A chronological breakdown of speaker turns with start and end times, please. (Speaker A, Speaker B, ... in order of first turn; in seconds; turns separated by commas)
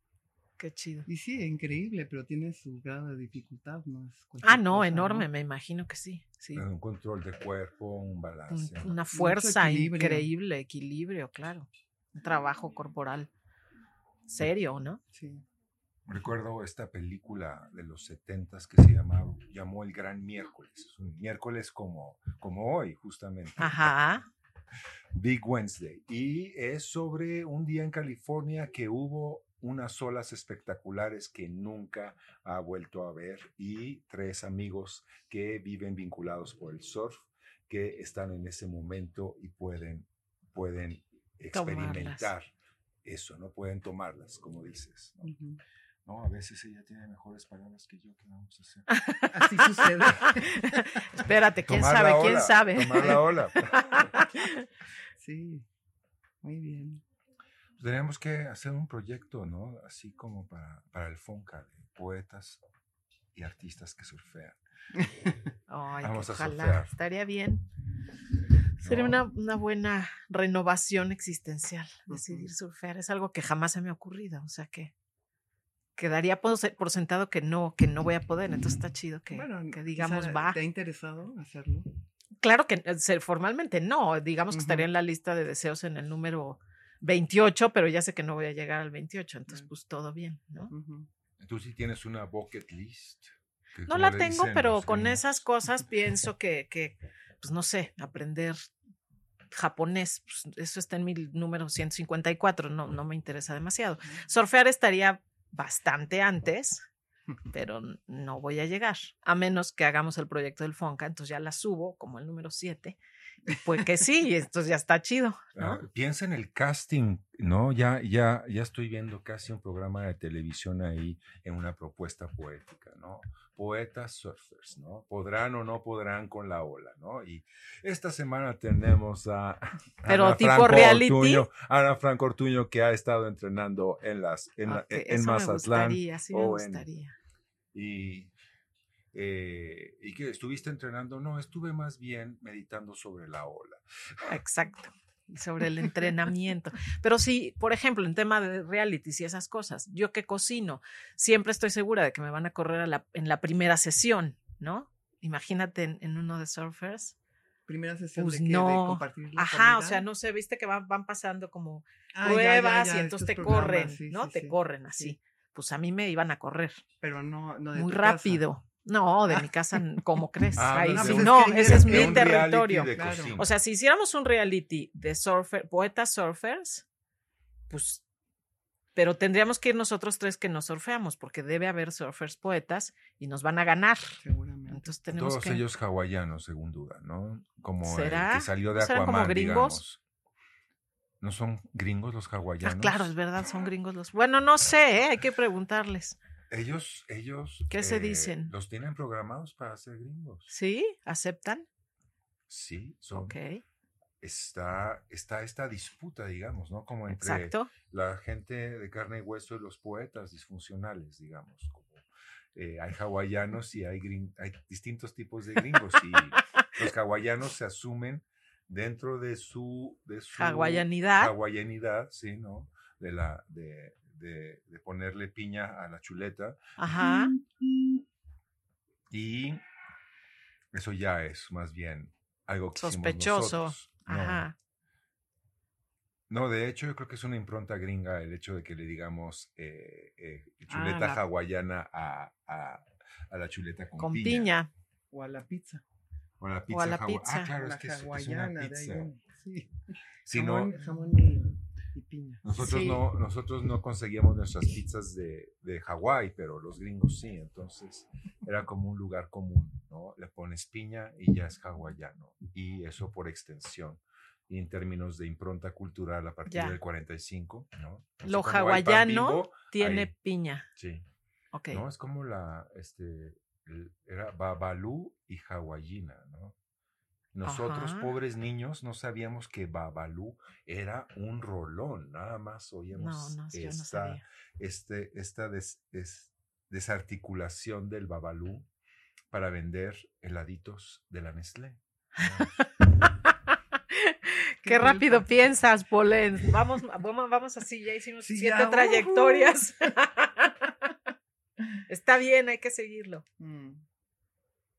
Speaker A: 0.6-1.1, Speaker B: 1.1-5.3, Speaker A: 4.4-6.6, Speaker C: 6.5-9.0, Speaker A: 8.5-13.3, Speaker B: 9.1-10.3, Speaker A: 14.3-15.0, Speaker B: 15.1-15.4, Speaker C: 16.1-23.8, Speaker A: 23.6-24.3, Speaker C: 25.1-42.5, Speaker A: 41.5-42.3, Speaker C: 43.0-45.3, Speaker B: 45.2-45.6, Speaker C: 46.0-48.9, Speaker A: 48.9-54.6, Speaker B: 49.3-51.0, Speaker C: 51.7-53.8, Speaker B: 55.2-55.7, Speaker B: 56.4-57.0, Speaker C: 57.8-62.6, Speaker C: 63.3-64.6, Speaker B: 65.0-65.3, Speaker A: 65.7-67.7, Speaker C: 66.0-66.9, Speaker C: 68.8-69.2, Speaker A: 68.8-74.9, Speaker B: 72.1-72.5, Speaker A: 76.0-80.6, Speaker B: 79.3-81.9, Speaker A: 82.4-90.7, Speaker B: 84.5-84.9, Speaker B: 90.7-91.1, Speaker C: 91.4-95.2, Speaker A: 93.9-98.7, Speaker A: 99.5-106.8, Speaker A: 107.5-113.0, Speaker A: 113.5-115.8, Speaker C: 115.6-136.8, Speaker A: 130.1-131.5, Speaker A: 134.7-137.2, Speaker C: 137.7-138.3, Speaker C: 139.1-144.3, Speaker A: 144.2-157.2, Speaker B: 157.7-160.1, Speaker A: 158.2-166.8, Speaker B: 162.1-165.2, Speaker B: 167.0-168.4, Speaker A: 167.8-176.8, Speaker C: 170.6-173.5, Speaker B: 170.7-173.4, Speaker A: 177.7-178.0, Speaker A: 178.9-185.6, Speaker B: 184.2-184.9, Speaker C: 185.1-190.0, Speaker A: 187.8-189.8, Speaker C: 191.2-193.1, Speaker A: 192.6-196.2, Speaker C: 196.5-200.5, Speaker A: 197.7-198.5, Speaker A: 200.5-201.7, Speaker C: 202.5-203.3, Speaker A: 203.1-203.6, Speaker C: 204.2-226.6, Speaker A: 207.2-207.7, Speaker A: 220.3-221.3, Speaker A: 226.8-227.3, Speaker C: 229.1-229.6, Speaker C: 230.7-234.4, Speaker A: 232.8-234.6, Speaker C: 236.3-244.5, Speaker A: 240.7-241.2, Speaker A: 244.0-244.7, Speaker B: 245.1-245.8, Speaker C: 246.4-249.1, Speaker A: 246.7-247.5, Speaker B: 247.5-252.5, Speaker C: 250.3-250.7, Speaker C: 252.4-270.1, Speaker A: 252.6-253.1, Speaker A: 266.5-266.8, Speaker A: 268.2-270.7, Speaker C: 270.8-271.0, Speaker A: 271.5-271.8, Speaker C: 271.7-276.6, Speaker C: 277.3-288.7, Speaker A: 277.4-278.1, Speaker A: 283.0-284.2, Speaker C: 289.3-292.5, Speaker A: 293.0-293.3, Speaker A: 293.9-300.9, Speaker B: 294.6-295.3, Speaker B: 298.2-299.6, Speaker A: 301.9-303.2, Speaker B: 303.4-303.8